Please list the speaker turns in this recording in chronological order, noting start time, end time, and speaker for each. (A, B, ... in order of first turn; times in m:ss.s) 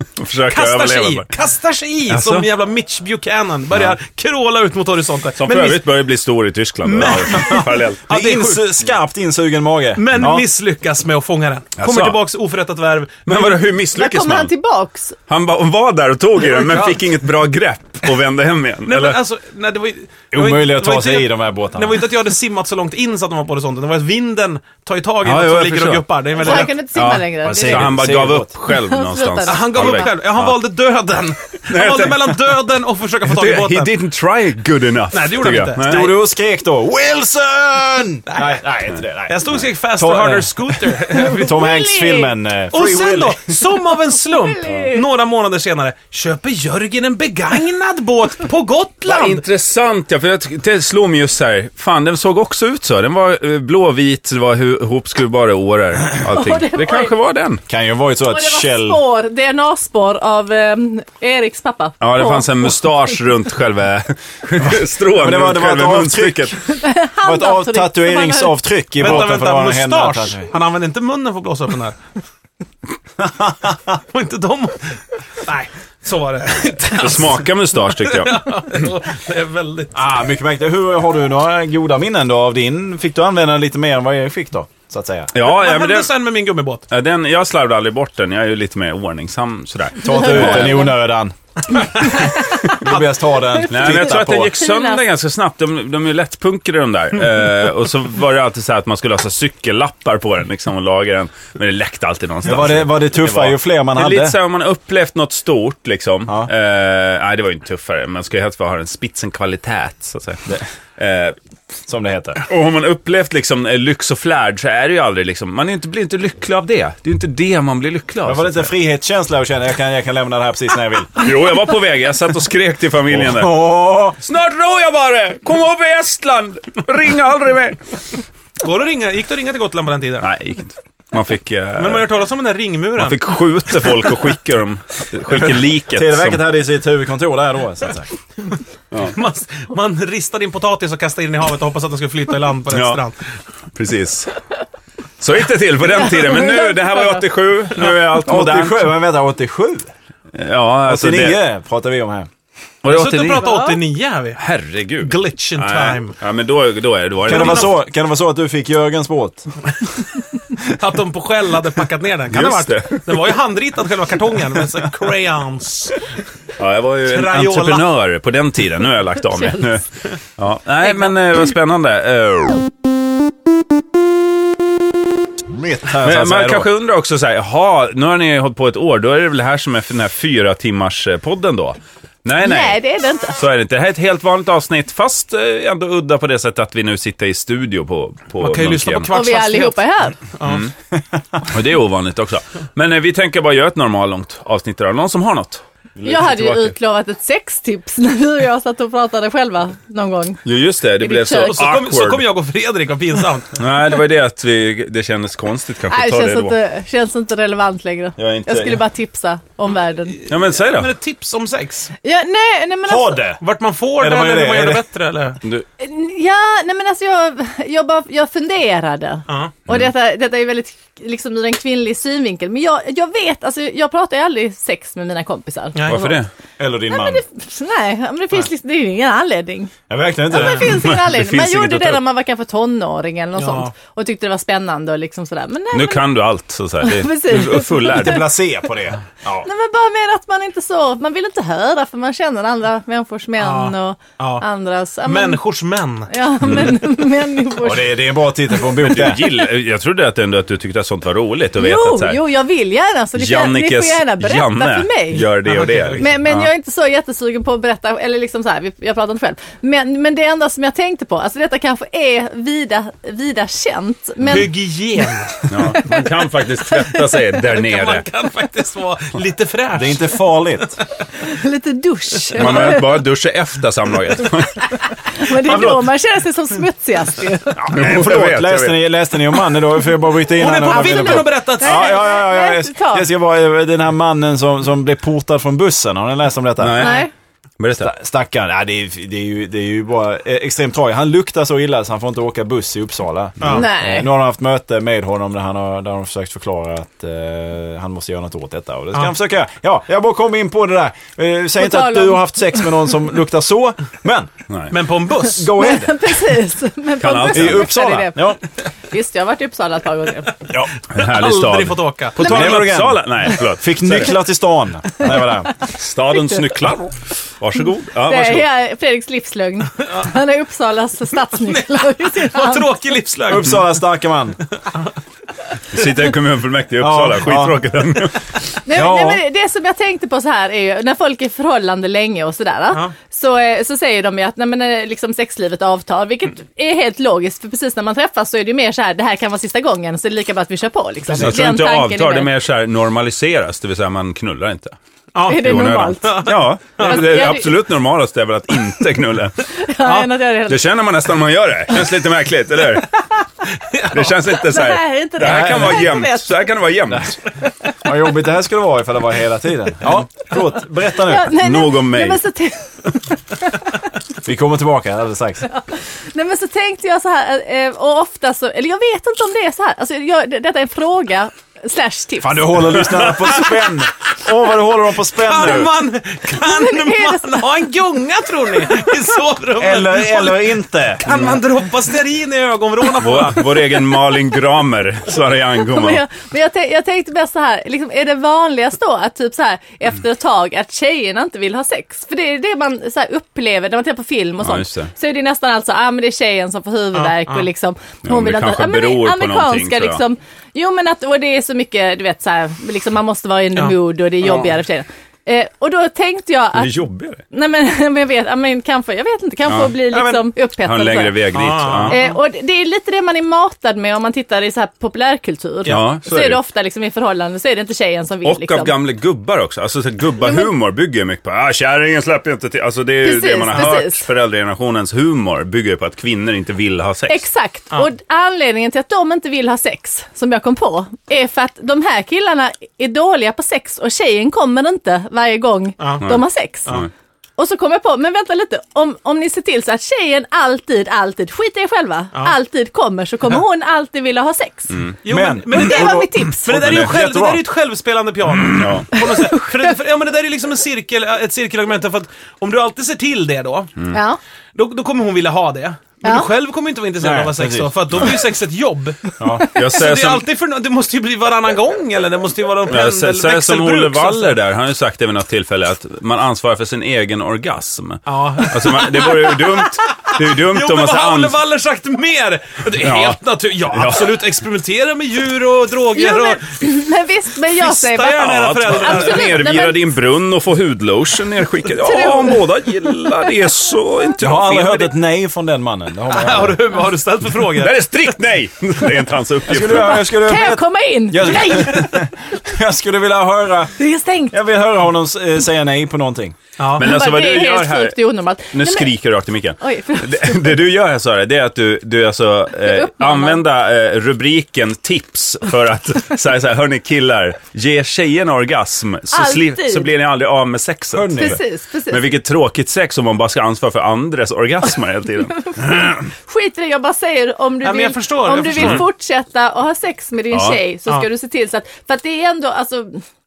0:00.2-0:01.3 A
0:00.5-0:05.8 B
0:02.1-0:02.4 A
0:05.4-0:08.0 A
0:06.8-0:08.7 B
0:08.1-0:10.5 C
0:10.0-0:13.7 B
0:11.8-0:12.2 A
0:13.3-0:14.5 A
0:13.9-0:15.2 D
0:15.3-0:19.2 A
0:16.4-0:17.0 B
0:18.8-0:26.7 B
0:20.3-0:22.0 C
0:25.2-0:30.6 A
0:26.4-0:28.0 D
0:27.4-0:28.5 C
0:28.6-0:30.1 D
0:29.4-0:33.9 B
0:31.7-0:32.4 A
0:33.3-0:36.0 A
0:35.1-0:36.2 B
0:35.8-0:43.5 C
0:38.3-0:38.6 B
0:39.3-0:41.7 B
0:41.3-0:42.3 D
0:42.7-0:49.4 B
0:44.2-0:45.0 D
0:49.0-0:57.6 A
0:56.3-0:57.1 D
0:57.7-0:59.0 C
0:58.3-1:03.1 D
1:02.0-1:06.6 A
1:04.6-1:06.6 C
1:06.7-1:08.6 D
1:07.2-1:10.5 C
1:09.0-1:12.0 B
1:13.2-1:13.8 C
1:14.1-1:20.0 B
1:16.9-1:18.5 A
1:19.9-1:25.3 C
1:25.3-1:26.1 A
1:25.4-1:26.9 B
1:26.9-1:30.8 A
1:30.0-1:31.3 C
1:30.0-1:31.0 D
1:32.1-1:32.8 D
1:32.6-1:34.5 C
1:33.5-1:35.0 D
1:33.7-1:51.3 A
1:42.4-1:44.4 C
1:51.9-1:52.4 C
1:52.4-1:58.7 A
1:58.2-2:01.2 C
2:01.2-2:03.5 A
2:03.1-2:04.2 C
2:04.2-2:07.8 A
2:08.6-2:10.3 B
2:10.2-2:12.0 A
2:11.8-2:13.2 B
2:13.0-2:16.4 A
2:15.9-2:18.1 C
2:19.0-2:23.2 B
2:22.7-2:23.0 A
2:23.7-2:24.3 A
2:25.2-2:29.0 A
2:26.1-2:27.1 D
2:27.8-2:28.0 B
2:28.1-2:29.9 C
2:30.3-2:31.4 A
2:30.8-2:32.3 C
2:32.8-2:33.6 A
2:32.8-2:34.4 B
2:33.3-2:33.8 D
2:34.4-2:37.7 A
2:35.0-2:36.2 B
2:37.2-2:37.7 B
2:37.2-2:39.5 C
2:40.6-2:46.0 B
2:42.3-2:43.0 A
2:46.6-2:49.8 A
2:47.0-2:47.9 B
2:50.4-2:52.6 A
2:50.8-2:51.1 D
2:55.4-2:56.7 C
2:56.0-3:02.8 A
3:02.4-3:03.4 D
3:03.4-3:09.1 A
3:08.4-3:10.6 B
3:09.1-3:10.2 D
3:10.4-3:10.7 A
3:11.4-3:16.7 A
3:16.0-3:20.4 D
3:20.4-3:22.2 A
3:21.0-3:21.6 D
3:21.4-3:23.6 B
3:23.6-3:26.5 A
3:25.9-3:30.2 D
3:28.2-3:28.8 A
3:30.3-3:30.9 A
3:30.3-3:31.9 B
3:32.0-3:33.2 D
3:32.8-3:33.4 C
3:33.4-3:35.4 B
3:34.0-3:34.8 C
3:35.8-3:46.2 D
3:39.3-3:39.5 B
3:45.7-3:46.2 B
3:45.8-3:46.3 A
3:46.6-3:47.2 C
3:46.9-3:49.7 D
3:49.9-3:50.9 C
3:50.3-3:56.0 D
3:50.6-3:52.0 A
3:53.4-3:53.7 B
3:55.7-3:58.3 A
3:56.8-3:58.2 D
3:57.9-3:59.5 C
3:59.4-4:05.4 D
4:03.4-4:04.4 B
4:05.0-4:06.1 B
4:06.1-4:07.9 D
4:06.4-4:06.8 A
4:07.6-4:09.3 C
4:08.8-4:12.2 A
4:11.6-4:15.3 D
4:13.1-4:16.5 A
4:15.4-4:16.1 B
4:16.0-4:25.0 D
4:24.2-4:25.5 B
4:25.5-4:28.0 A
4:25.6-4:26.0 D
4:26.7-4:27.0 D
4:27.4-4:30.8 B
4:29.7-4:30.8 C
4:31.2-4:33.0 D
4:32.3-4:34.8 A
4:32.3-4:32.8 B
4:35.1-4:37.7 D
4:35.4-4:35.7 A
4:37.6-4:47.0 C
4:37.6-4:38.9 A
4:40.3-4:42.0 B
4:40.4-4:43.1 D
4:46.6-4:47.1 A
4:46.8-4:47.1 D
4:47.6-4:47.9 A
4:47.8-5:04.3 C
4:53.4-4:53.6 B
4:53.5-4:54.1 D
5:01.6-5:02.4 D
5:04.5-5:04.7 A
5:04.7-5:05.5 B
5:05.3-5:06.2 C
5:05.5-5:08.4 D
5:07.0-5:07.8 A
5:07.3-5:08.4 C
5:08.9-5:10.4 D
5:10.9-5:14.2 A
5:10.9-5:12.5 B
5:12.2-5:15.5 C
5:15.6-5:18.5 A
5:18.0-5:22.7 D
5:21.4-5:23.8 B
5:23.3-5:24.4 C
5:25.7-5:28.3 A
5:26.8-5:27.6 C
5:28.6-5:42.3 D
5:28.7-5:29.2 C
5:41.2-5:44.8 A
5:45.1-5:47.3 B
5:45.2-5:47.5 D
5:45.3-5:49.5 A
5:49.5-5:50.6 D
5:50.5-5:53.1 A
5:53.7-5:54.1 B
5:53.9-5:57.2 A
5:54.3-5:56.5 D
5:55.2-5:55.8 C
5:57.6-5:57.9 D
5:57.8-6:01.4 C
6:01.0-6:03.1 D
6:01.2-6:02.2 A
6:04.2-6:05.4 C
6:05.5-6:13.1 D
6:12.2-6:15.7 C
6:13.2-6:13.5 B
6:15.1-6:23.8 B
6:16.4-6:17.4 D
6:19.6-6:21.0 C
6:21.1-6:21.4 A
6:23.0-6:26.0 A
6:25.6-6:46.8 D
6:34.4-6:34.9 A
6:36.9-6:37.4 B
6:38.0-6:40.0 A
6:44.2-6:44.5 A
6:46.5-6:47.2 A
6:47.3-6:51.2 D
6:49.4-6:49.8 A
6:50.6-6:52.0 A
6:51.3-6:52.2 B
6:51.9-6:58.7 D
6:55.7-6:56.4 A
6:58.2-7:07.2 A
7:00.2-7:00.5 D
7:03.0-7:04.1 D
7:07.1-7:16.8 D
7:16.0-7:16.9 A
7:17.4-7:24.8 D
7:25.0-7:33.7 B
7:25.1-7:27.4 C
7:25.5-7:26.6 D
7:26.6-7:26.9 A
7:28.5-7:29.0 A
7:29.0-7:29.6 D
7:33.9-7:34.2 D
7:34.6-7:39.0 B
7:37.0-7:37.7 C
7:39.2-7:39.5 C
7:39.5-7:40.2 A
7:39.6-7:44.4 B
7:42.7-7:51.3 A
7:48.1-7:56.6 B
7:52.8-7:53.2 A
7:53.7-7:54.2 A
7:55.9-7:59.9 D
7:57.5-7:59.3 B
7:58.1-8:04.9 A
8:01.8-8:02.5 D
8:04.2-8:06.6 C
8:06.1-8:08.2 B
8:07.6-8:10.1 A
8:09.5-8:13.7 C
8:09.9-8:11.9 D
8:13.8-8:14.3 D
8:14.3-8:16.4 C
8:16.6-8:17.1 B
8:16.8-8:18.0 A
8:16.8-8:18.9 D
8:18.5-8:36.0 A
8:19.6-8:20.5 D
8:22.7-8:23.4 D
8:29.1-8:29.9 D
8:30.9-8:31.4 C
8:31.1-8:32.1 D
8:35.4-8:43.0 D
8:37.6-8:38.8 B
8:38.5-8:38.8 A
8:40.3-8:40.6 A